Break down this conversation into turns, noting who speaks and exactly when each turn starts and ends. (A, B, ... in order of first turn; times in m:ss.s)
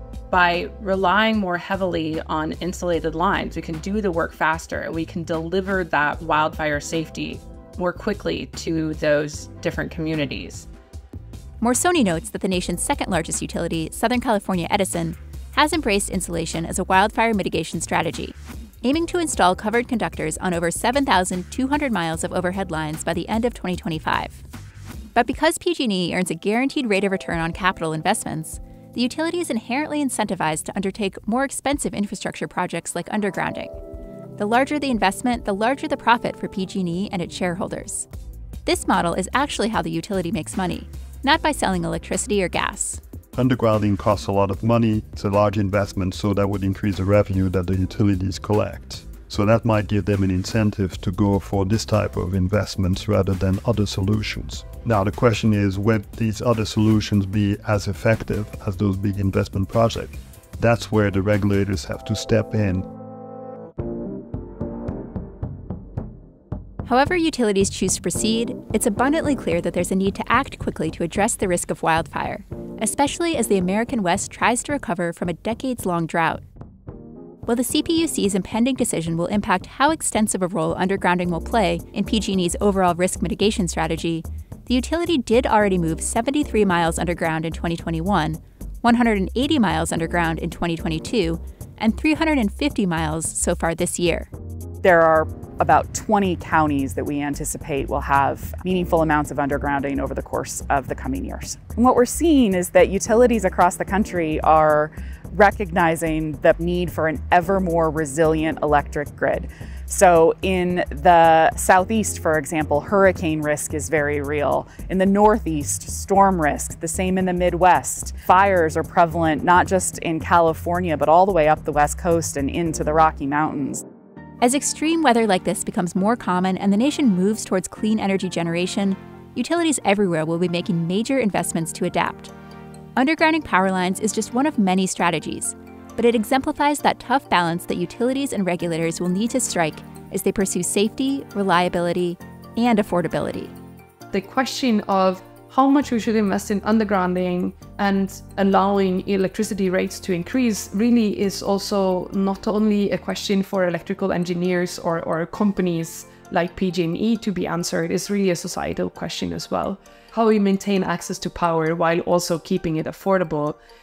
0:00.3-0:10.6 A
0:11.6-0:24.4 B
0:25.1-0:33.8 B
0:34.4-0:38.1 B
0:38.6-0:43.0 B
0:43.3-1:02.8 C
1:06.8-1:16.4 B
1:17.5-1:34.3 B
1:34.8-2:03.8 D
2:04.4-2:12.3 B
2:13.0-2:23.5 B
2:24.1-2:43.6 E